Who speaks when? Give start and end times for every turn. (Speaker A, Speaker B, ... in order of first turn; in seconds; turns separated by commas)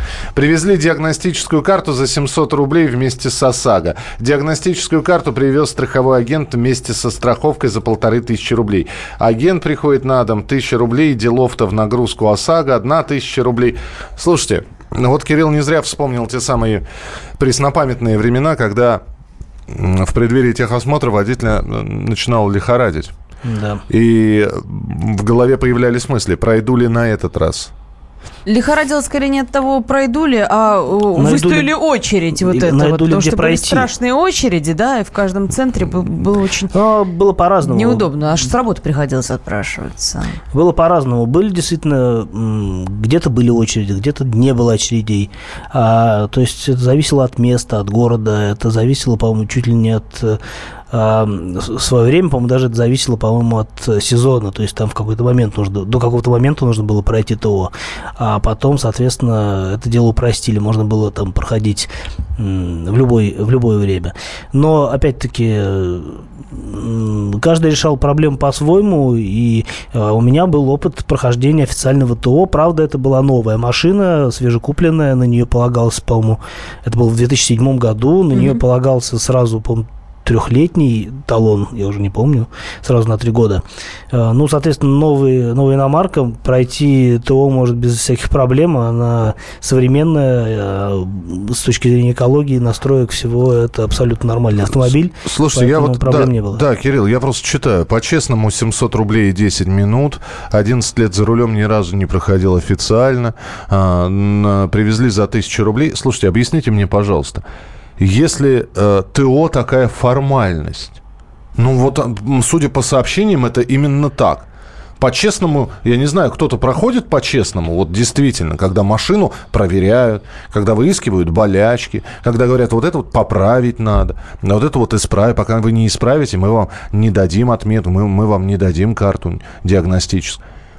Speaker A: 0.3-16.8, Speaker A: 17.4-19.0, Speaker A: 19.7-23.1, Speaker B: 23.4-23.8, Speaker A: 23.9-27.7, Speaker C: 28.5-36.7, Speaker B: 31.1-31.8, Speaker B: 32.4-33.9, Speaker B: 36.7-38.1, Speaker C: 37.6-40.4, Speaker B: 40.5-50.4, Speaker B: 50.9-96.6, Speaker C: 78.3-78.6, Speaker A: 94.6-107.4, Speaker A: 108.0-111.0, Speaker A: 111.6-114.5, Speaker A: 115.0-130.4